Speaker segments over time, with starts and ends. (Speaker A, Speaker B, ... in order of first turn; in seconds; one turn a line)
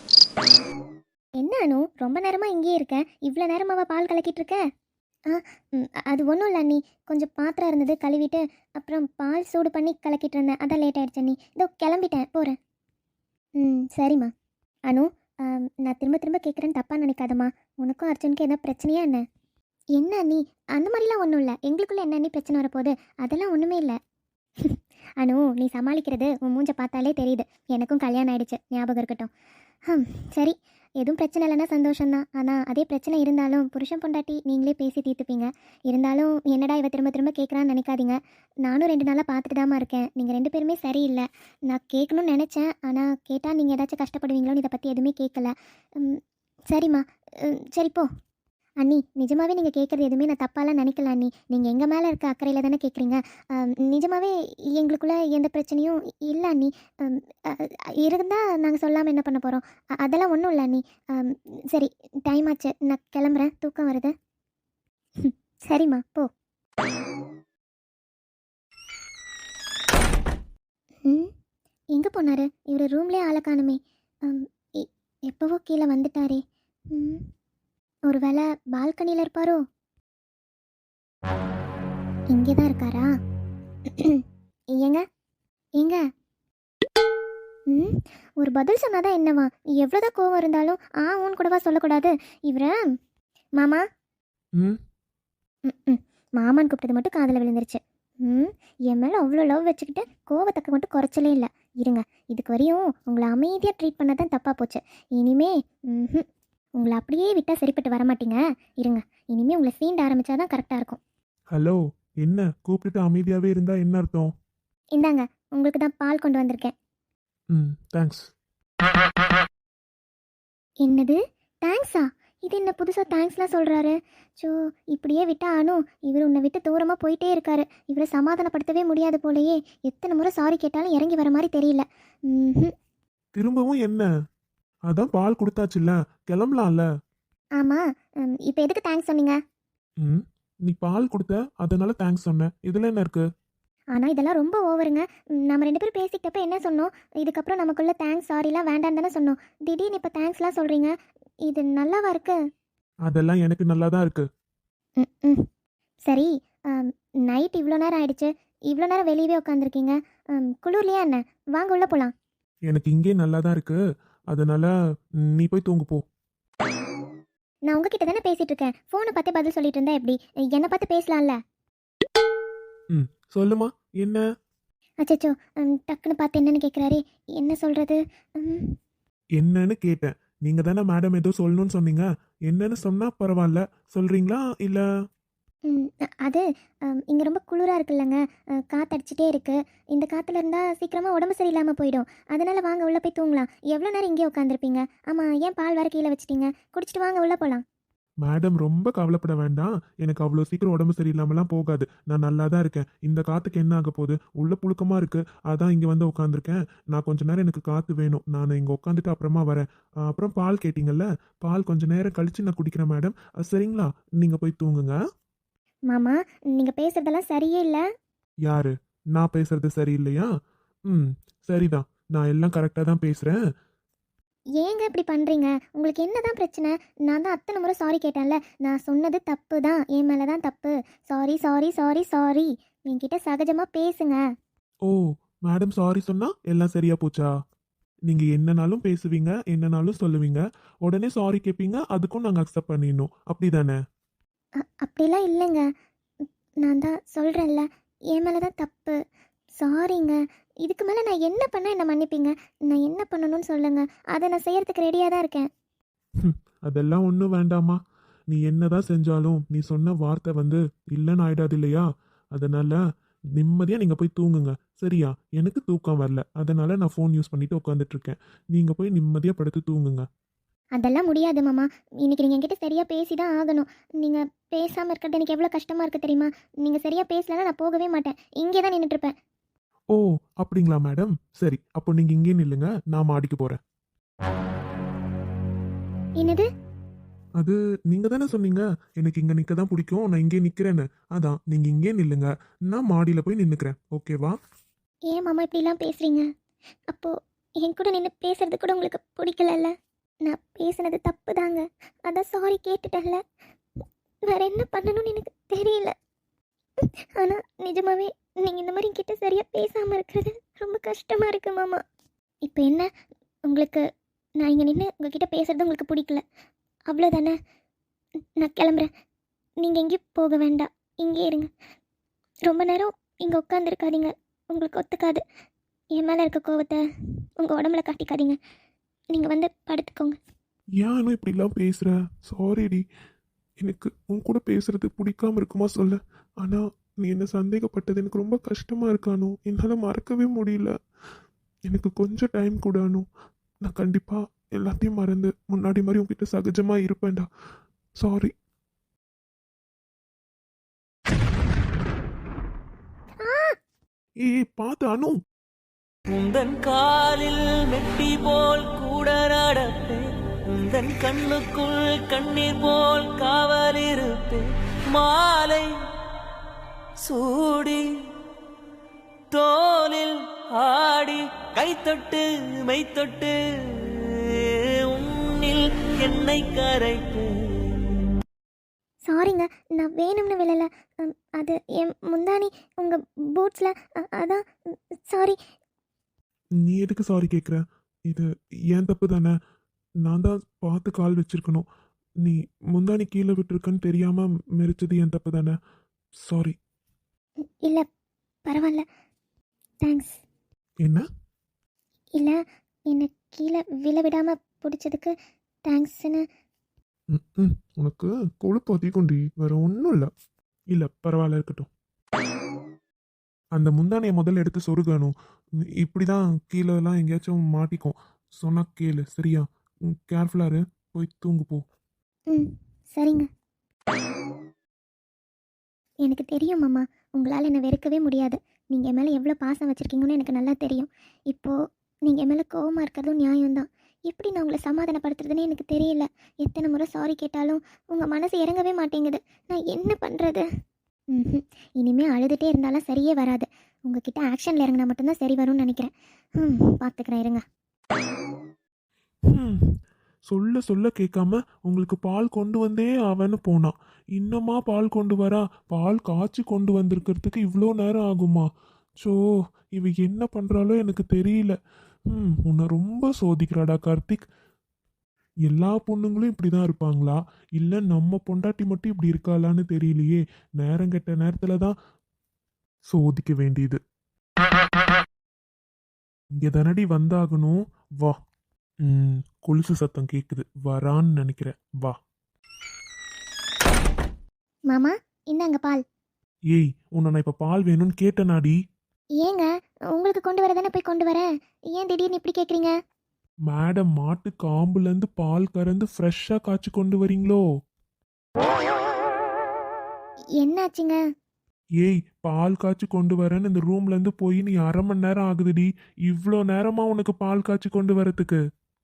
Speaker A: 1.4-4.6
Speaker A: 5.3-12.6
Speaker A: 13.6-14.3
Speaker A: 14.9-19.2
Speaker A: 19.9-23.9
Speaker A: 24.6-29.3
Speaker A: 29.9-46.2
Speaker A: 46.7-48.1
Speaker A: 48.8-64.1
Speaker A: 65.2-66.3
Speaker A: 71.9-76.4
Speaker A: 76.9-77.2
Speaker A: 78.1-79.6
Speaker A: 82.3-83.1
Speaker A: 83.9-84.2
Speaker A: 84.8-85.0
Speaker A: 87.7-92.7
Speaker A: 95.7-106.2
Speaker A: 106.8-111.0
Speaker B: 111.5-114.3
Speaker A: 115.0-116.7
Speaker B: 117.5-118.3
Speaker A: 120.8-132.7
Speaker B: 133.3-134.1
Speaker B: 134.9-136.9
Speaker A: 137.6-139.4
Speaker B: 140.0-143.2
Speaker A: 143.9-150.9
Speaker A: 151.5-152.4
Speaker B: 153.1-154.2
Speaker A: 155.0-155.4
Speaker A: 156.1-162.1
Speaker B: 162.7-163.8
Speaker B: 164.3-164.7
Speaker B: 165.3-166.0
Speaker A: 167.7-171.4
Speaker B: 172.9-174.2
Speaker A: 175.0-178.7
Speaker B: 179.4-184.8
Speaker A: 185.7-188.2
Speaker A: 188.7-197.6
Speaker B: 198.2-214.9
Speaker A: 215.9-217.8
Speaker B: 218.4-220.3
Speaker B: 220.9-223.3
Speaker A: 224.6-234.2
Speaker B: 234.9-237.3
Speaker B: 238.1-243.8
Speaker A: 244.6-245.7
Speaker A: 246.6-249.0
Speaker A: 249.6-255.5
Speaker B: 256.2-257.8
Speaker B: 258.3-262.8
Speaker B: 263.4-270.0
Speaker A: 270.8-279.1
Speaker B: 279.9-283.6
Speaker A: 286.2-286.4
Speaker B: 287.4-294.4
Speaker A: 295.1-296.3
Speaker A: 296.9-299.7
Speaker A: 300.2-303.2
Speaker A: 303.8-305.9
Speaker A: 307.1-311.8
Speaker A: 312.4-312.9
Speaker A: 313.5-313.8
Speaker A: 314.4-316.2
Speaker A: 316.9-317.4
Speaker A: 318.4-318.9
Speaker A: 319.6-321.5
Speaker A: 322.4-325.2
Speaker A: 325.9-326.8
Speaker A: 327.4-328.4
Speaker A: 329.1-330.2
Speaker B: 330.8-332.8
Speaker B: 333.6-340.7
Speaker B: 341.7-343.1
Speaker B: 343.6-347.3
Speaker B: 348.0-348.3
Speaker A: 353.2-353.5
Speaker B: 354.2-355.1
Speaker C: 356.1-365.7
Speaker C: 367.0-367.8
Speaker C: 369.3-374.2
Speaker C: 374.9-377.9
Speaker A: 379.1-384.4
Speaker A: 385.1-385.4
Speaker B: 386.6-389.3
Speaker B: 390.0-391.6
Speaker B: 392.2-395.5
Speaker B: 396.2-396.5
Speaker A: 398.4-398.8
Speaker A: 399.8-400.2
Speaker A: 402.9-405.1
Speaker A: 405.7-406.2
Speaker B: 407.1-410.1
Speaker B: 410.7-411.7
Speaker B: 413.6-415.1
Speaker B: 415.8-421.6
Speaker A: 422.3-423.2
Speaker A: 426.0-431.6
Speaker A: 432.1-440.4
Speaker A: 441.1-447.4
Speaker B: 449.3-449.7
Speaker B: 450.3-458.5
Speaker B: 459.7-461.6
Speaker B: 462.1-464.2
Speaker B: 465.5-471.7
Speaker B: 472.9-473.8
Speaker B: 476.4-478.2
Speaker B: 478.8-481.9
Speaker A: 484.7-485.8
Speaker B: 486.5-488.6
Speaker A: 489.2-492.7
Speaker B: 493.5-497.4
Speaker A: 500.4-501.0
Speaker B: 501.8-508.4